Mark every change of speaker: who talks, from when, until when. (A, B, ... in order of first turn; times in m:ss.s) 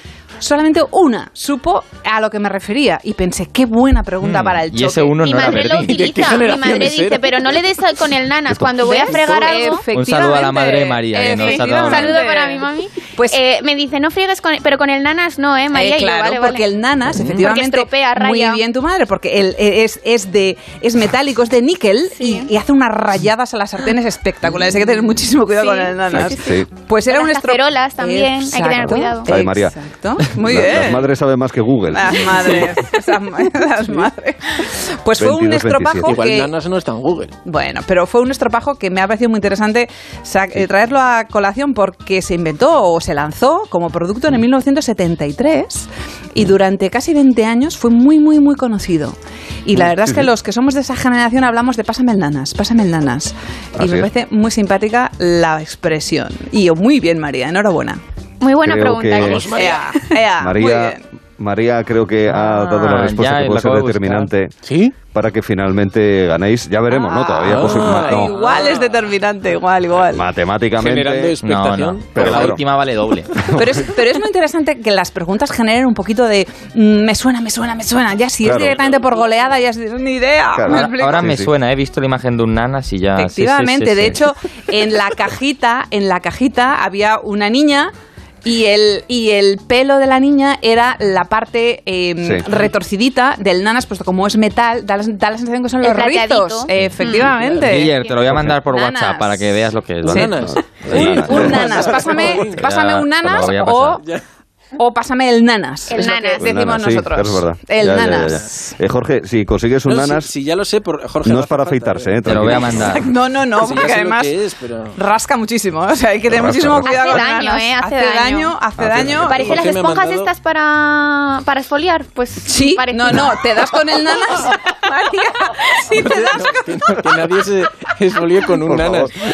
0:00.4-0:05.6 A
0:04.2-0:06.0 B
0:05.2-0:09.8 C
0:05.8-0:07.3 D
0:08.8-0:13.4 A
0:09.9-0:12.2 B
0:11.3-0:16.6 C
0:15.7-0:31.1 A
0:17.3-0:18.6 C
0:22.2-0:22.5 C
0:25.6-0:26.5 C
0:26.1-0:26.7 E
0:27.1-0:29.3 C
0:28.8-0:29.8 E
0:30.3-0:32.8 E
0:31.9-0:36.5 A
0:35.2-0:36.2 E
0:36.1-0:37.3 D
0:37.4-0:58.0 A
0:49.8-0:50.3 E
0:53.8-0:54.1 E
0:58.4-0:59.8 C
0:58.6-0:59.5 E
0:59.2-0:59.8 D
0:59.3-1:01.0 A
1:00.4-1:04.5 E
1:02.3-1:04.3 B
1:04.7-1:04.9 D
1:05.1-1:08.3 E
1:06.9-1:10.2 A
1:07.4-1:08.9 D
1:10.1-1:11.4 E
1:10.8-1:12.6 D
1:11.4-1:13.4 B
1:12.1-1:12.6 E
1:13.4-1:13.8 E
1:13.5-1:21.3 A
1:18.4-1:18.8 E
1:18.8-1:19.3 D
1:20.5-1:21.5 E
1:20.7-1:24.2 B
1:23.2-1:27.9 A
1:28.4-1:37.9 A
1:35.8-1:37.4 C
1:37.4-1:37.7 D
1:37.6-1:41.6 B
1:38.3-1:38.6 E
1:38.7-1:39.4 A
1:40.0-1:42.6 D
1:40.4-1:41.8 E
1:40.9-1:44.0 A
1:42.3-1:44.0 B
1:44.8-1:48.7 A
1:45.9-1:46.4 C
1:46.4-1:50.3 E
1:48.2-1:48.4 D
1:49.9-1:52.5 D
1:51.2-1:52.9 E
1:52.2-1:53.1 B
1:52.8-1:54.4 A
1:53.6-1:54.9 D
1:54.9-1:59.6 A
1:56.3-1:57.0 E
1:56.8-1:58.5 C
1:58.8-1:59.2 E
1:58.8-2:00.3 D
1:59.2-2:03.3 C
2:02.4-2:07.0 A
2:05.9-2:09.1 D
2:08.7-2:09.1 E